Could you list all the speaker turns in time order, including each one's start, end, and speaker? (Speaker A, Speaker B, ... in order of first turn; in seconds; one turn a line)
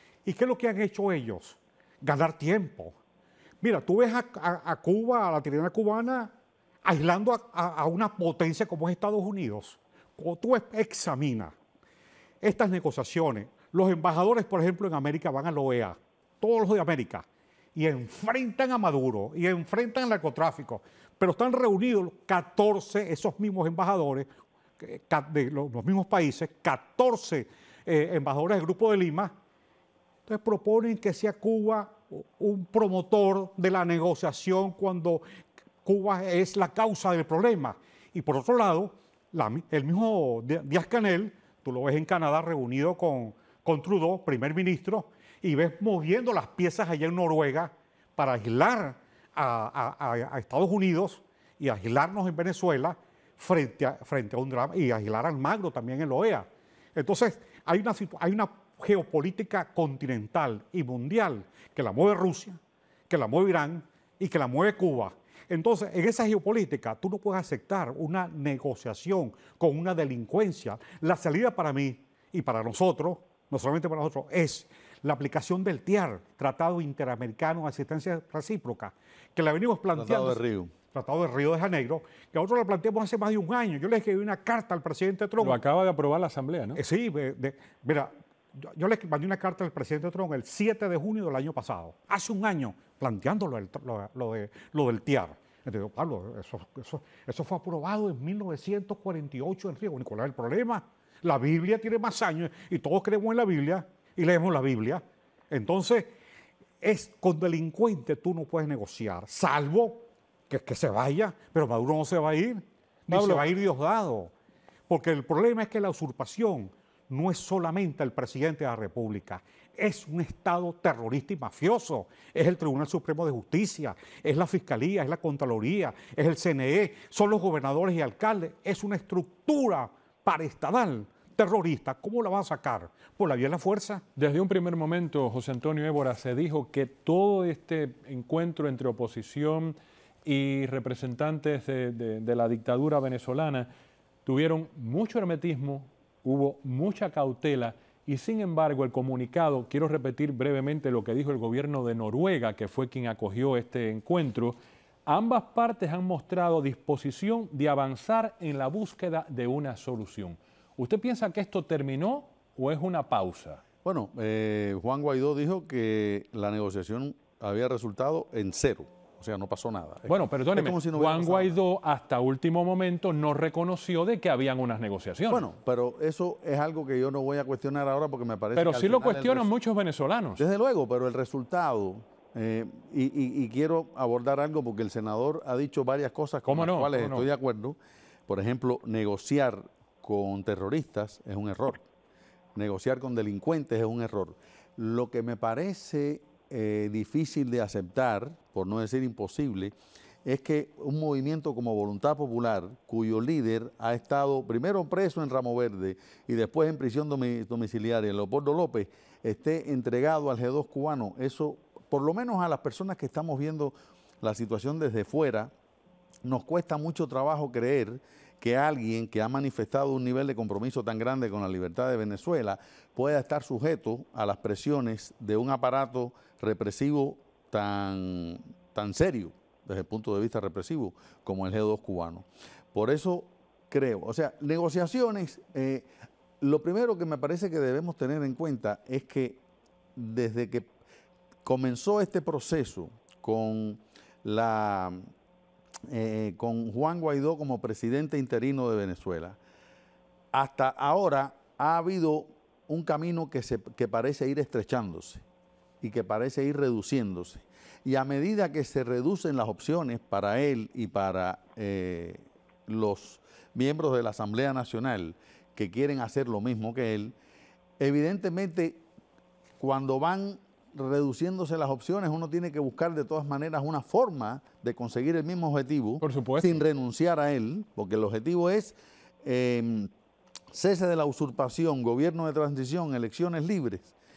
Speaker A: 0.2-3.0
Speaker A: 3.6-6.3
Speaker A: 6.8-11.6
Speaker A: 12.4-24.3
Speaker A: 24.8-29.4
Speaker A: 30.3-35.2
Speaker A: 35.9-62.6
Speaker A: 63.1-80.4
Speaker B: 80.0-80.7
Speaker A: 80.9-85.6
Speaker C: 85.4-86.8
Speaker A: 86.8-106.1
Speaker A: 106.8-114.3
Speaker C: 113.1-113.4
Speaker A: 114.9-134.1
Speaker C: 134.2-143.7
Speaker C: 144.2-163.6
Speaker B: 163.8-171.6
Speaker C: 170.1-175.5
Speaker B: 175.3-179.5
Speaker C: 178.6-180.4
Speaker B: 180.4-187.8
Speaker C: 186.5-187.3
Speaker B: 188.3-191.8
Speaker B: 192.6-199.7
Speaker B: 200.2-215.5
Speaker B: 216.2-235.9
Speaker B: 236.4-239.4
Speaker B: 240.0-240.7
Speaker B: 241.4-245.1
Speaker B: 245.9-249.4
Speaker B: 250.3-255.2
Speaker B: 255.8-267.1
Speaker B: 267.8-268.8
Speaker B: 269.6-279.9
Speaker C: 276.0-276.6
Speaker B: 280.5-283.9